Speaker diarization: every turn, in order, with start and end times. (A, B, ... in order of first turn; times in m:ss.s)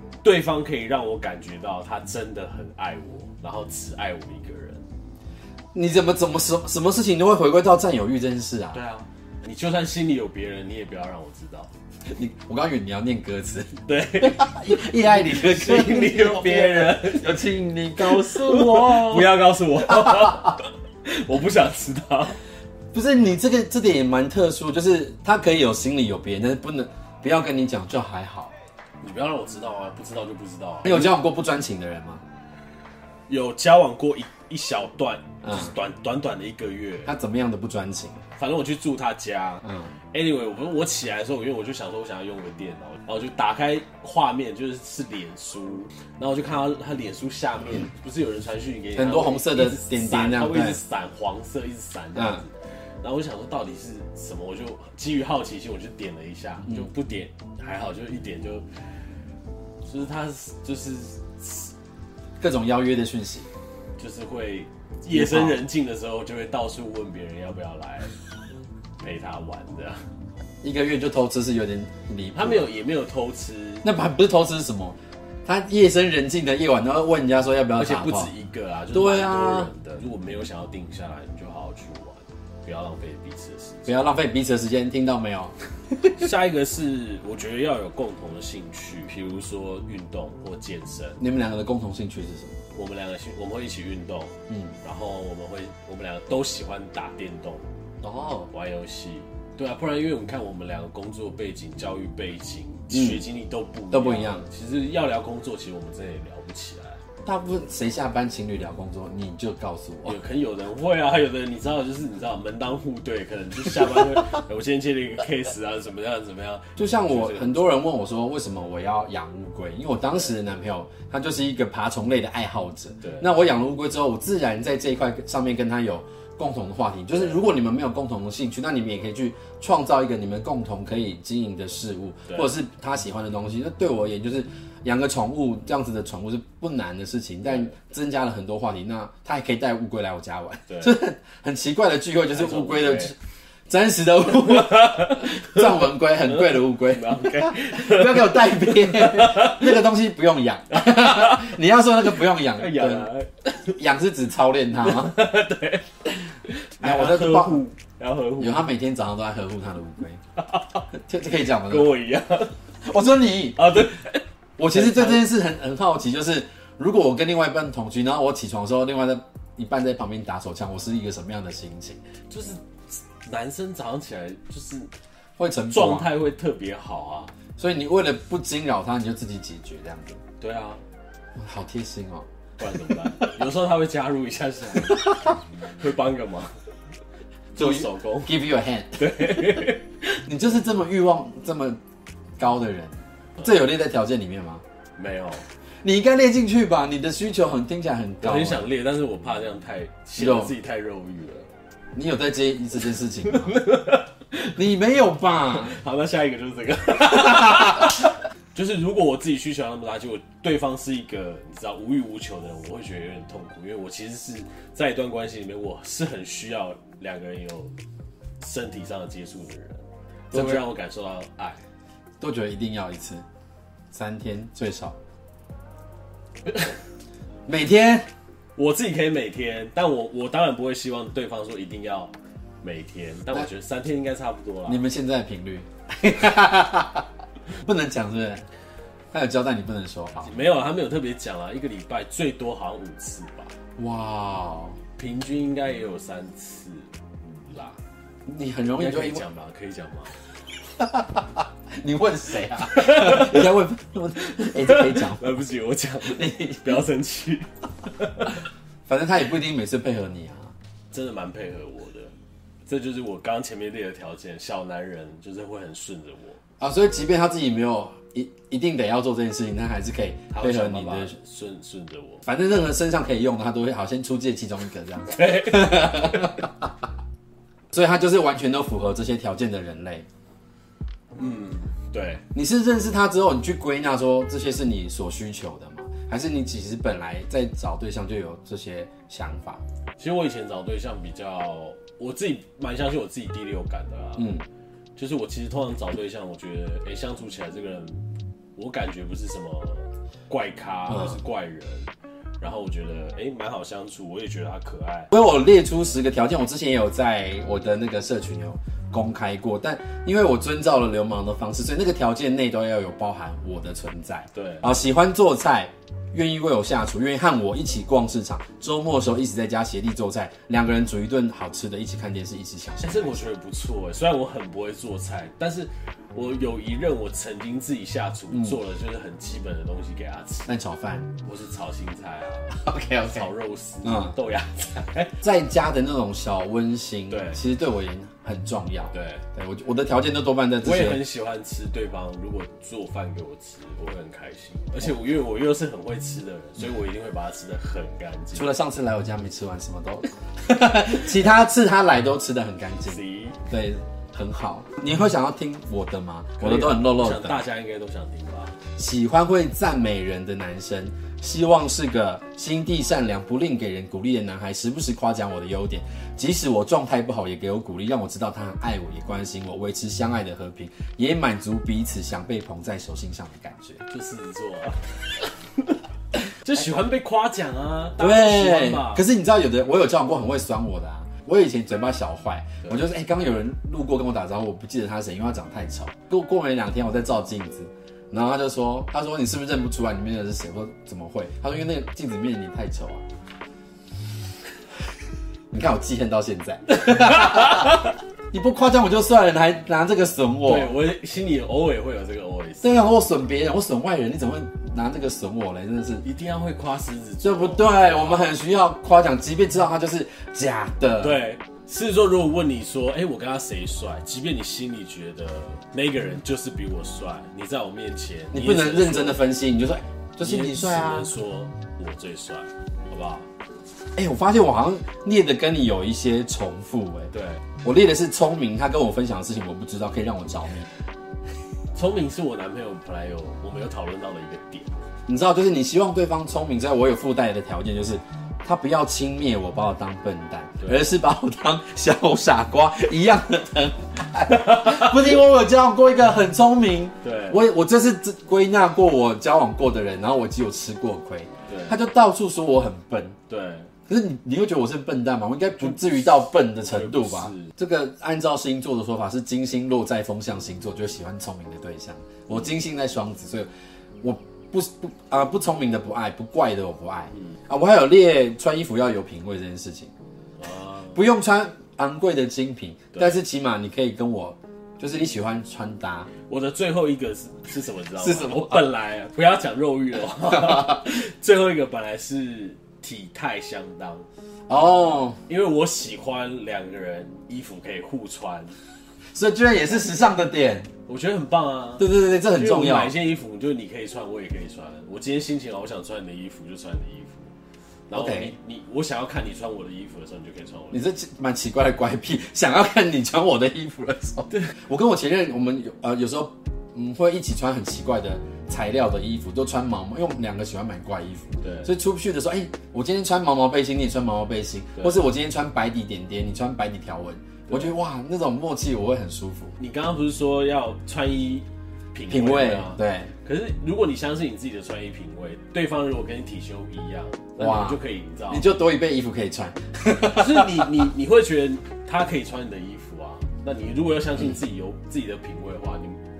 0:00.2-0:04.8 A
0:05.7-0:08.8 B
0:08.7-0:11.7 A
0:12.1-0:20.5 B
0:13.8-0:22.4 A
0:22.9-0:28.5 B
0:29.0-0:31.1 A
0:30.8-0:32.2 B
0:33.3-0:37.1 A
0:35.4-0:35.7 B
0:37.0-0:38.2 B
0:38.4-0:58.6 A
0:39.6-0:39.9 B
0:48.9-0:50.8 B
0:52.1-0:52.4 B
0:56.6-0:56.9 B
0:59.9-1:01.7 A
1:02.4-1:03.5 B
1:04.0-1:08.1 A
1:05.1-1:05.6 B
1:09.0-1:10.0 A
1:10.6-1:12.7 B
1:12.3-1:13.8 A
1:13.8-1:18.3 B
1:17.7-1:24.1 A
1:18.9-1:19.7 B
1:23.8-1:25.5 B
1:26.1-1:31.2 A
1:31.2-1:32.6 B
1:32.7-1:37.7 A
1:34.5-1:34.8 B
1:38.0-1:38.5 B
1:38.5-1:47.0 A
1:42.9-1:43.2 B
1:43.9-1:44.5 B
1:47.2-1:50.2 B
1:50.0-1:57.8 A
1:56.8-2:23.2 B
2:03.0-2:03.3 A
2:07.1-2:07.4 A
2:20.7-2:21.0 A
2:22.3-2:23.1 A
2:23.7-2:33.1 B
2:24.7-2:25.7 A
2:26.2-2:29.8 A
2:30.7-2:31.5 A
2:32.1-2:33.8 A
2:33.8-2:35.2 B
2:34.8-2:38.7 A
2:36.8-2:37.6 B
2:38.4-2:40.2 B
2:40.4-2:40.9 A
2:40.9-2:41.9 B
2:41.5-2:42.5 A
2:42.8-2:43.9 B
2:43.6-2:45.3 A
2:44.6-2:52.0 B
2:52.3-2:54.9 A
2:55.4-2:56.1 B
2:55.7-2:57.3 A
2:57.6-3:00.2 B
3:00.4-3:00.8 A
3:01.4-3:02.2 B
3:02.6-3:06.6 A
3:07.5-3:08.4 A
3:07.6-3:11.8 B
3:09.0-3:09.8 A
3:12.4-3:14.6 B
3:15.0-3:15.4 A
3:15.8-3:18.6 B
3:18.2-3:21.5 A
3:20.2-3:20.5 B
3:21.9-3:23.6 B
3:23.2-3:24.2 A
3:24.4-3:25.7 B
3:25.5-3:37.7 A
3:38.4-3:41.6 A
3:40.3-3:40.6 B
3:42.2-3:43.2 B
3:43.9-3:45.0 B
3:46.5-3:46.7 A
3:47.5-3:48.1 B
3:48.6-3:54.8 A
3:54.7-3:57.0 B
3:57.6-3:58.4 B
3:59.1-4:00.4 B
4:00.2-4:03.5 A
4:03.8-4:04.8 B
4:05.0-4:07.8 A
4:08.3-4:09.2 B
4:08.7-4:10.1 A
4:10.8-4:15.4 B
4:12.7-4:13.4 A
4:14.5-4:18.4 A
4:16.0-4:16.8 B
4:18.9-4:20.5 B
4:20.9-4:22.1 A
4:22.7-4:26.4 A
4:26.6-4:31.1 B
4:30.3-4:32.2 A
4:32.2-4:36.7 B
4:35.1-4:36.3 A
4:37.7-4:40.0 B
4:41.1-4:42.2 A
4:42.3-4:49.6 B
4:50.0-4:54.4 A
4:54.2-4:54.4 B
4:55.0-5:05.1 A
5:00.9-5:01.2 B
5:05.1-5:23.2 B
5:14.3-5:14.7 A
5:22.8-5:30.5 A
5:28.3-5:28.6 B
5:30.5-5:31.1 B
5:31.2-5:35.1 A
5:32.5-5:33.3 B
5:33.8-5:34.2 B
5:35.2-5:41.0 B
5:37.1-5:37.4 A
5:38.9-5:39.2 A
5:40.6-5:48.5 A
5:48.3-5:57.4 B
5:52.8-5:53.4 A
5:56.4-5:58.6 A
5:58.8-6:13.8 B
6:13.9-6:15.8 A
6:16.3-6:19.0 A
6:18.0-6:33.0 B
6:35.5-6:37.8 B
6:38.3-6:40.7 B
6:40.4-6:42.8 A
6:42.6-6:46.0 B
6:46.0-6:48.4 A
6:47.2-6:51.2 B
6:51.0-6:59.2 A
6:58.3-7:01.1 B
7:00.2-7:03.3 A
7:04.0-7:07.1 B
7:07.1-7:07.4 A
7:07.6-7:10.7 B
7:11.7-7:14.7 A
7:15.1-7:33.2 B
7:27.0-7:27.4 A
7:31.5-7:31.8 A
7:33.3-7:33.7 A
7:33.9-7:43.5 B
7:35.6-7:37.5 A
7:44.0-7:49.9 B
7:50.4-7:51.0 A
7:50.9-7:56.1 B
7:52.9-7:53.2 A
7:56.3-8:04.1 A
7:58.0-7:58.6 B
8:00.3-8:00.6 B
8:04.5-8:05.2 B
8:05.3-8:08.5 A
8:09.1-8:10.7 B
8:10.9-8:17.3 A
8:11.8-8:12.9 B
8:17.9-8:20.8 A
8:17.9-8:18.3 B
8:20.7-8:39.6 B
8:31.4-8:31.7 A
8:34.8-8:35.0 A
8:37.5-8:37.7 A
8:39.6-8:48.5 A
8:42.1-8:43.1 B
8:47.4-8:50.8 B
8:50.0-8:56.0 A